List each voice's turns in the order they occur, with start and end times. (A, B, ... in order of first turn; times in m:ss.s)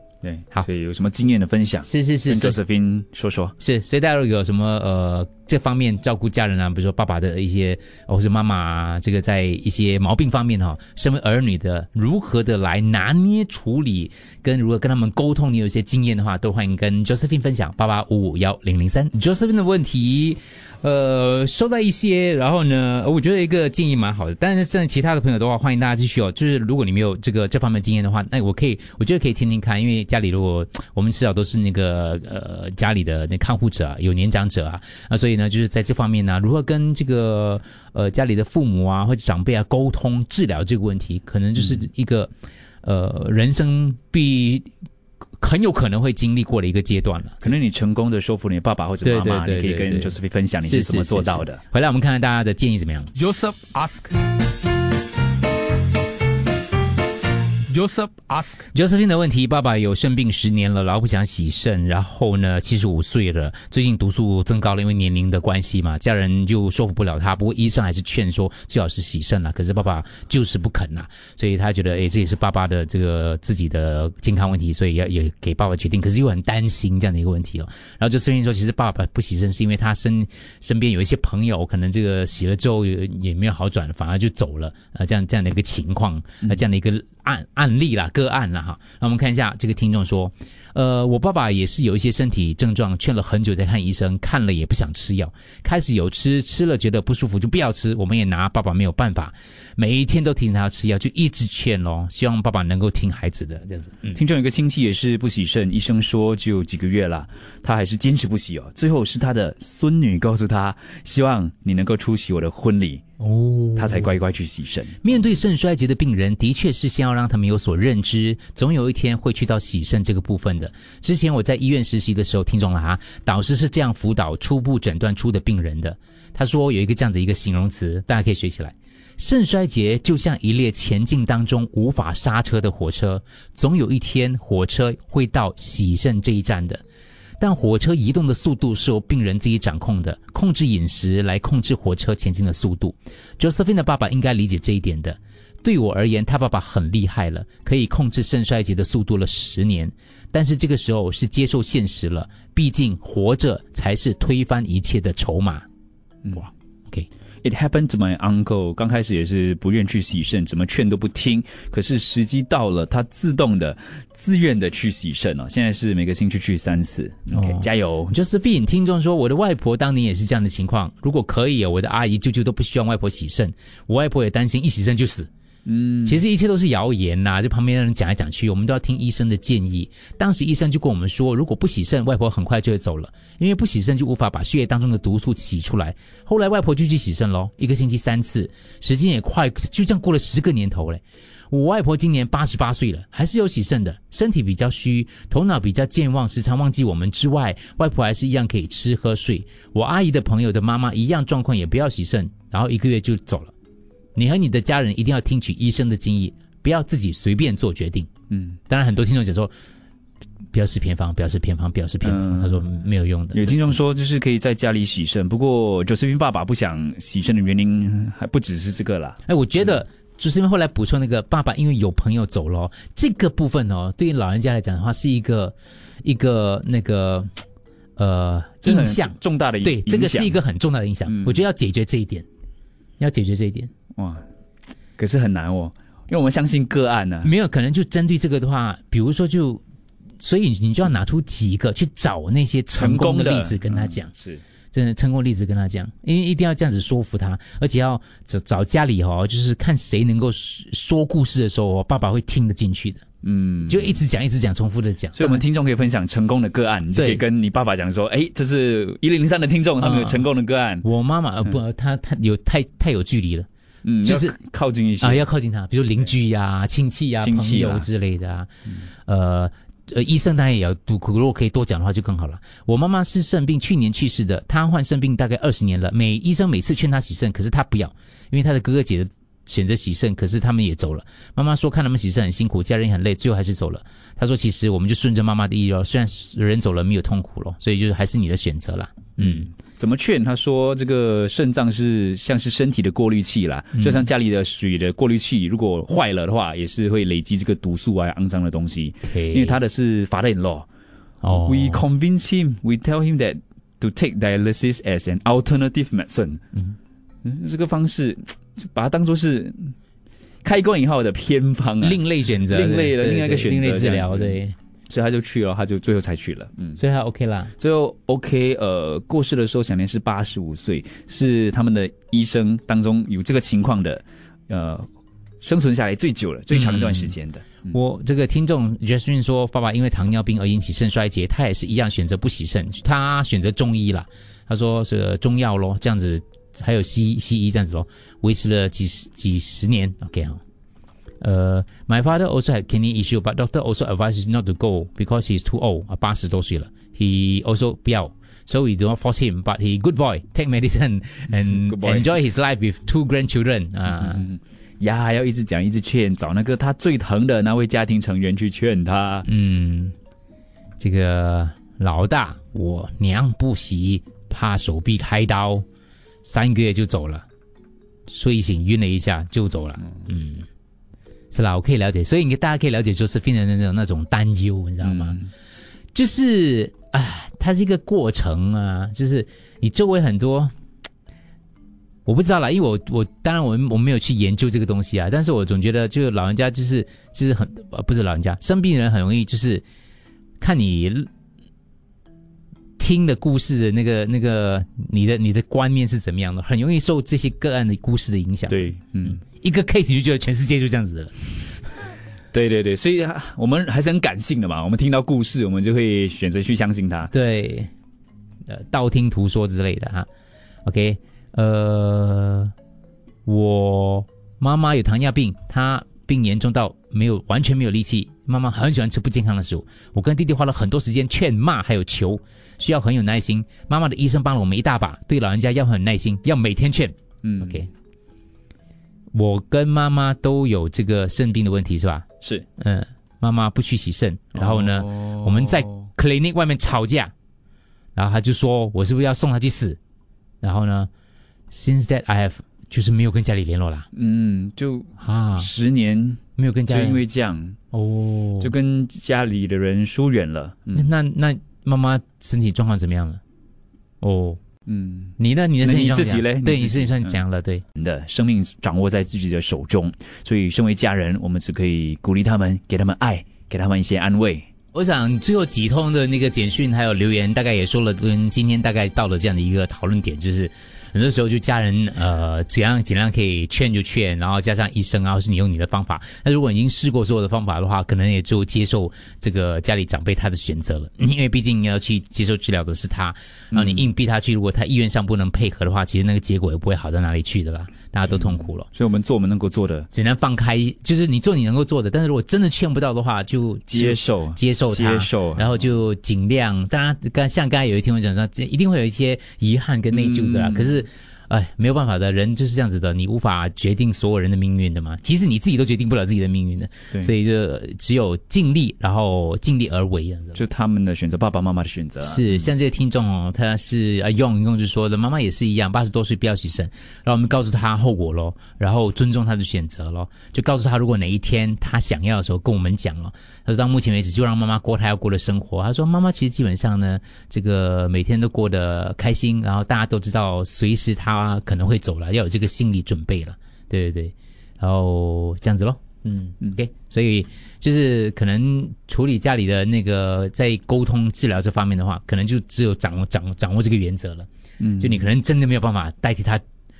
0:00.2-0:03.5 A
0:01.8-0:02.6 B
0:03.6-0:42.3 B
0:42.8-0:44.7 B
0:45.4-0:47.5 B
0:47.4-0:51.6 A
0:49.0-0:53.1 B
0:53.1-0:54.1 C
0:57.7-0:58.6 C
0:58.7-1:44.2 B
1:44.1-1:53.0 A
1:53.2-1:54.1 B
1:53.8-1:55.2 A
1:55.0-2:16.8 B
2:17.4-2:35.6 B
2:36.4-2:37.1 B
2:37.4-2:48.2 A
2:47.3-2:55.3 B
2:55.6-2:56.2 A
2:56.0-3:23.5 B
3:24.2-3:28.1 B
3:28.3-3:28.6 A
3:28.7-3:29.5 B
3:30.5-3:33.6 B
3:32.0-3:32.6 A
3:33.3-3:39.2 A
3:39.2-3:47.3 B
3:48.0-3:52.2 B
3:48.6-3:50.4 A
3:51.0-3:51.4 A
3:53.0-3:53.7 B
3:54.0-3:54.2 A
3:55.0-3:57.3 A
3:57.2-3:59.6 B
4:00.2-4:04.1 B
4:02.7-4:04.4 A
4:04.7-4:13.0 B
4:13.2-4:14.0 A
4:13.7-4:15.4 B
4:15.1-4:20.8 A
4:17.0-4:17.2 B
4:19.8-4:20.3 B
4:20.8-4:23.5 B
4:23.8-4:25.2 A
4:24.0-4:24.4 B
4:25.0-4:28.5 B
4:27.2-4:27.9 A
4:29.0-4:49.5 B
4:49.2-5:00.6 A
4:53.7-4:54.1 B
4:59.0-4:59.6 B
5:01.2-5:01.8 B
5:01.3-5:06.4 A
5:07.2-5:09.7 A
5:10.4-5:14.4 A
5:11.8-5:14.6 B
5:14.9-5:16.8 A
5:16.8-5:17.5 B
5:17.6-5:24.9 A
5:25.4-5:27.7 A
5:26.5-5:40.4 B
5:41.2-5:54.2 B
5:51.6-5:52.1 A
5:53.9-5:59.2 A
5:59.2-5:59.9 B
6:00.8-6:05.6 B
6:06.2-6:07.2 B
6:08.1-6:10.4 B
6:11.3-6:15.2 B
6:14.8-6:15.2 A
6:15.9-6:20.5 B
6:22.0-6:29.6 B
6:30.4-6:31.1 B
6:32.8-6:41.8 B
6:38.5-6:39.2 A
6:42.3-6:47.1 A
6:47.1-6:47.7 B
6:48.5-6:50.1 B
6:50.6-6:52.5 B
6:53.2-7:07.7 B
7:07.2-7:07.7 A
7:09.1-7:12.0 B
7:12.6-7:17.1 B
7:14.3-7:15.9 A
7:18.0-7:19.8 B
7:20.4-7:20.9 B
7:21.5-7:23.9 B
7:23.9-7:27.6 A
7:25.0-7:25.5 B
7:26.4-7:27.0 B
7:27.7-7:28.5 B
7:28.4-7:30.8 A
7:30.7-7:33.2 B
7:34.0-7:34.4 B
7:34.7-7:37.2 A
7:35.2-7:37.6 B
7:37.8-7:44.5 A
7:44.7-8:08.7 B
8:03.5-8:03.9 A
8:08.7-8:09.9 A
8:09.9-8:30.4 B
8:13.7-8:15.6 A
8:19.9-8:20.8 A
8:30.3-8:32.4 A
8:32.0-9:04.3 B
9:04.6-9:05.1 A
9:04.8-9:06.4 B